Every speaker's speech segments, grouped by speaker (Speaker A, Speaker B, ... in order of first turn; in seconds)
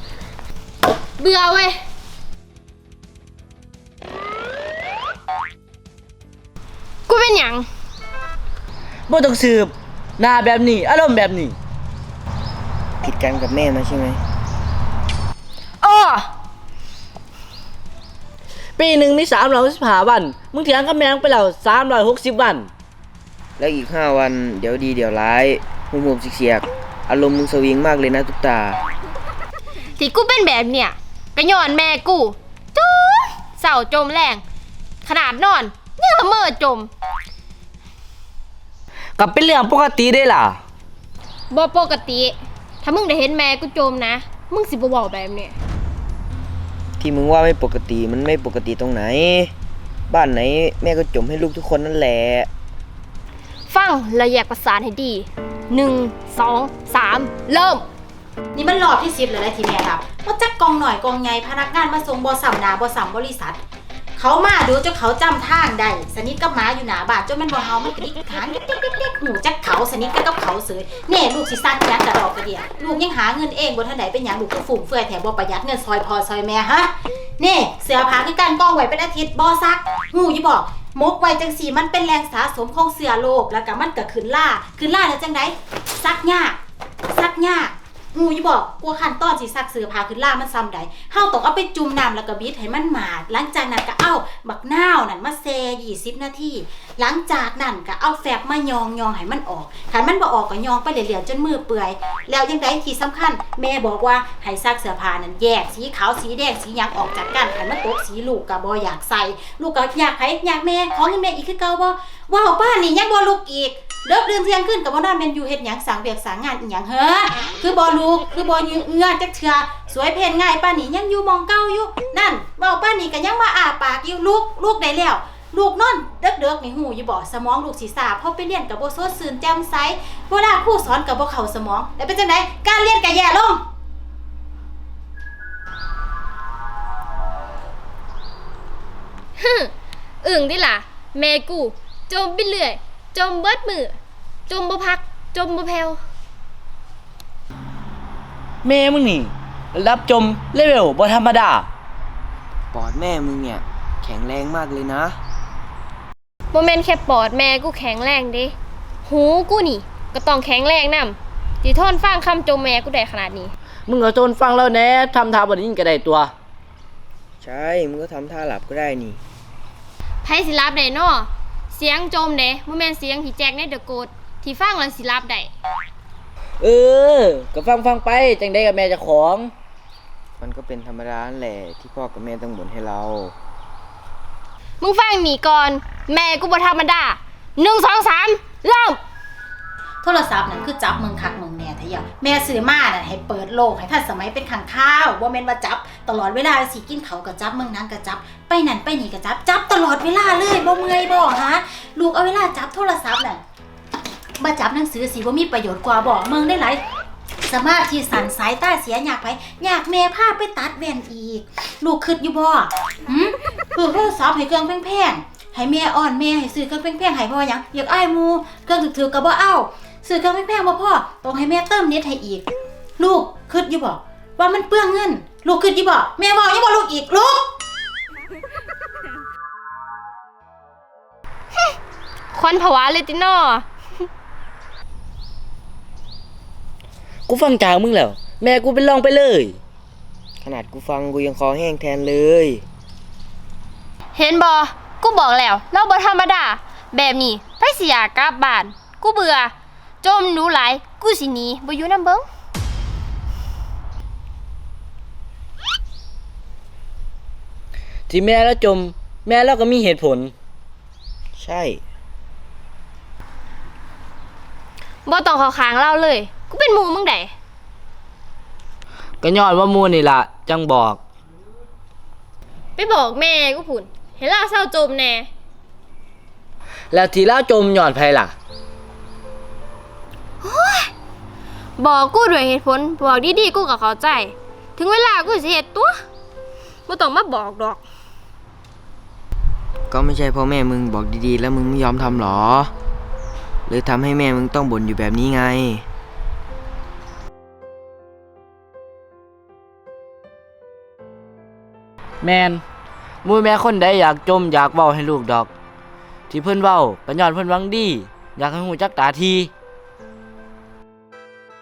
Speaker A: 1.2-1.8, 7.1-7.7, 15.8-16.3, 29.9-34.4, 35.0-36.9, 41.5-45.5, 53.7-57.8, 139.4-146.0, 156.5-163.5, 170.2-175.5, 184.8-189.0, 232.3-233.7, 244.1-252.3, 265.0-267.3, 272.8-275.3, 280.4-280.9, 281.8-286.0, 286.9-287.8
Speaker B: 9.1-11.6, 18.8-22.7, 39.2-40.6, 148.6-151.7, 163.9-166.3, 176.6-179.5, 237.3-239.6, 258.1-260.3, 269.2-271.0, 276.9-278.3, 302.2-302.6, 303.2-305.5, 306.3-309.5
Speaker C: 13.0-14.2, 23.6-28.8, 47.0-49.5, 50.1-52.5, 152.7-155.2, 167.4-169.2, 180.4-183.3, 240.4-242.6, 261.4-261.8, 289.9-292.7, 293.7-295.8
Speaker D: 58.5-63.6, 64.2-133.6, 190.0-203.4, 204.4-206.8, 207.4-222.5, 223.0-227.5